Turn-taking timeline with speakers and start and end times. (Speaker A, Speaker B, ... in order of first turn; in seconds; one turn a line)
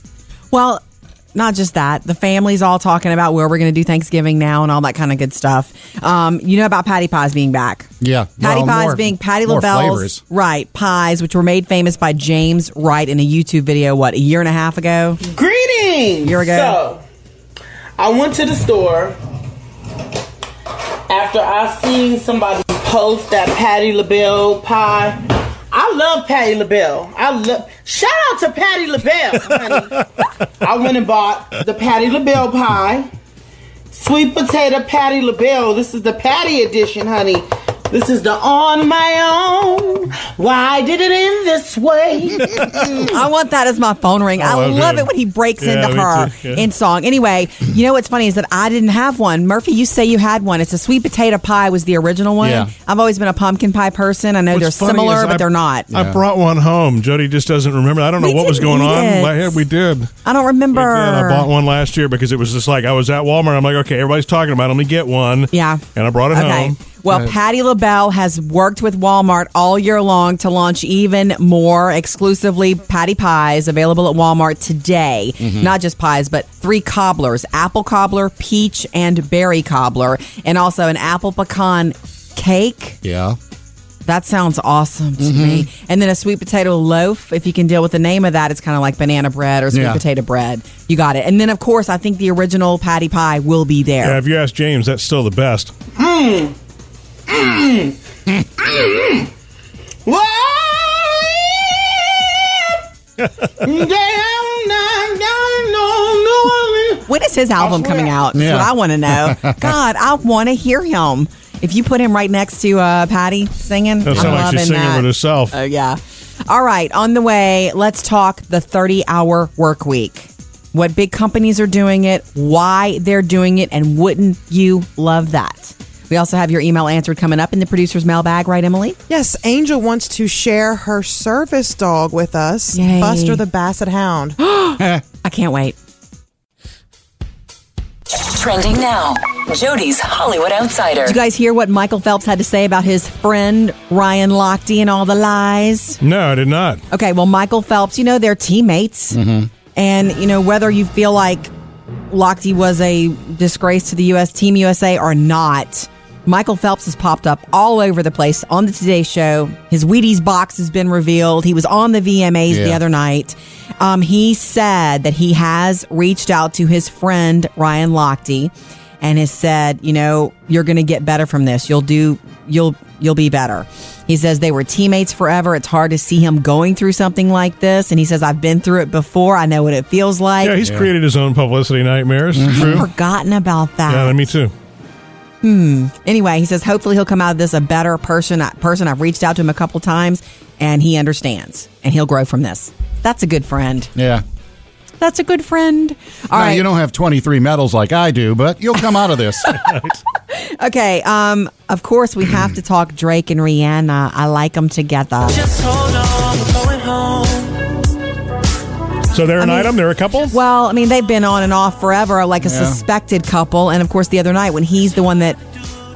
Speaker A: 0.5-0.8
Speaker A: 1.4-7.9
Speaker B: 8.0-10.2
Speaker A: 8.4-15.2
Speaker C: 15.3-17.0
Speaker A: 16.2-16.8
Speaker C: 18.0-19.2
Speaker C: 21.1-25.2
Speaker C: 25.7-30.0
Speaker C: 30.6-33.1
Speaker C: 33.9-43.1
Speaker A: 43.0-55.9
Speaker D: 44.4-46.6
Speaker B: 52.4-52.7
Speaker D: 54.5-60.1
Speaker B: 55.9-56.2
Speaker A: 58.2-59.6
Speaker A: 60.2-61.5
Speaker D: 60.7-66.8
Speaker A: 65.5-83.0
Speaker B: 75.4-75.7
Speaker B: 83.0-83.4
Speaker A: 84.1-94.2
Speaker B: 85.2-85.7
Speaker B: 89.7-90.0
Speaker D: 94.0-95.7
Speaker C: 96.0-96.5
Speaker C: 97.3-98.0
Speaker C: 98.6-99.2
Speaker C: 100.1-102.8
Speaker D: 103.2-103.5
Speaker C: 103.6-107.0
Speaker A: 107.1-129.0
Speaker C: 107.5-108.3
Speaker B: 108.3-109.8
Speaker D: 114.0-115.5
Speaker B: 114.1-114.5
Speaker E: 129.1-134.4
Speaker A: 132.7-133.4
Speaker A: 134.4-135.8
Speaker B: 134.8-135.0
Speaker F: 138.1-141.2
Speaker A: 141.0-146.0
Speaker D: 146.0-146.8
Speaker A: 146.9-149.2
Speaker B: 149.1-149.5
Speaker A: 149.8-151.5
Speaker A: 152.1-180.6
Speaker B: 162.5-162.8
Speaker D: 180.4-182.9
Speaker B: 180.6-180.9
Speaker B: 182.3-182.9
Speaker A: 182.5-184.2
Speaker D: 183.9-184.5
Speaker A: 185.4-193.9
Speaker B: 193.9-194.2
Speaker A: 195.0-196.6
Speaker B: 196.3-199.6
Speaker A: 199.4-205.5
Speaker C: 205.5-207.6
Speaker D: 209.1-210.3
Speaker A: 209.4-209.8
Speaker A: 210.3-215.4
Speaker B: 212.4-212.8